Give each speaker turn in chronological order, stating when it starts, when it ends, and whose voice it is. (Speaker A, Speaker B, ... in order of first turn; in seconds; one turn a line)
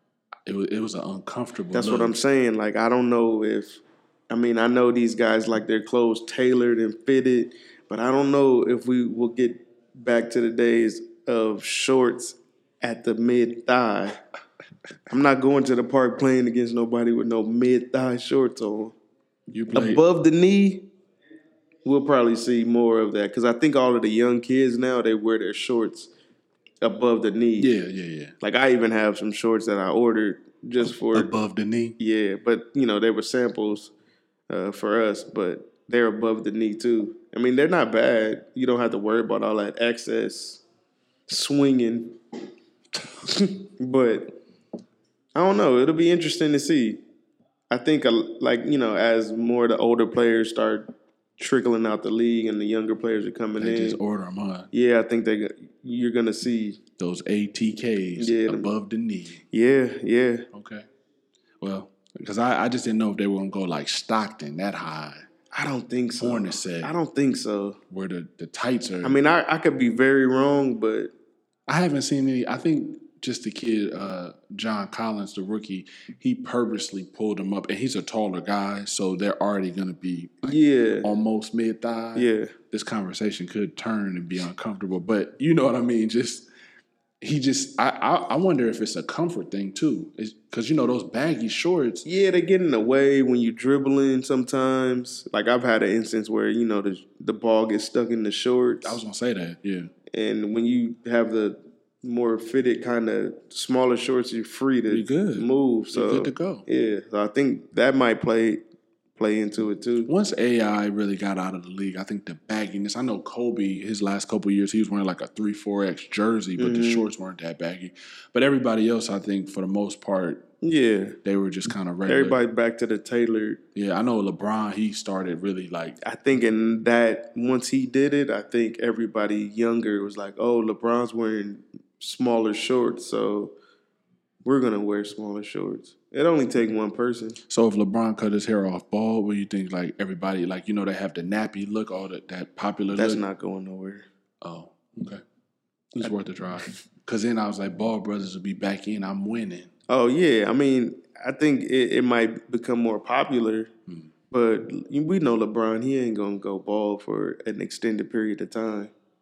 Speaker A: 0.5-2.1
Speaker B: 1.7-14.2
Speaker B: 15.1-18.9
Speaker A: 19.5-20.0
Speaker B: 19.7-20.9
Speaker B: 21.8-26.1
Speaker B: 26.8-27.7
Speaker A: 27.6-28.3
Speaker B: 28.4-31.3
Speaker A: 31.1-32.0
Speaker B: 32.0-33.9
Speaker B: 34.5-40.6
Speaker B: 41.3-42.2
Speaker B: 43.2-44.4
Speaker B: 45.3-47.0
Speaker B: 47.7-54.0
Speaker A: 53.6-54.7
Speaker B: 54.7-56.8
Speaker A: 57.0-59.4
Speaker B: 58.2-58.7
Speaker B: 59.5-60.5
Speaker A: 60.5-60.9
Speaker A: 61.6-65.3
Speaker B: 65.5-67.8
Speaker A: 66.2-66.9
Speaker A: 67.9-69.2
Speaker B: 69.0-71.1
Speaker A: 71.7-86.5
Speaker B: 80.4-81.1
Speaker B: 82.1-82.5
Speaker A: 87.2-92.0
Speaker B: 92.0-99.0
Speaker A: 98.8-99.9
Speaker B: 100.1-108.6
Speaker A: 104.9-106.6
Speaker B: 109.2-110.1
Speaker A: 110.0-120.5
Speaker B: 116.6-117.1
Speaker B: 120.6-121.2
Speaker A: 121.2-122.4
Speaker B: 122.1-123.6
Speaker A: 123.7-126.0
Speaker B: 126.0-133.5
Speaker B: 134.4-137.4
Speaker A: 137.5-143.2
Speaker B: 142.9-144.1
Speaker A: 144.4-145.2
Speaker A: 145.9-149.7
Speaker B: 149.9-153.7
Speaker B: 154.3-158.9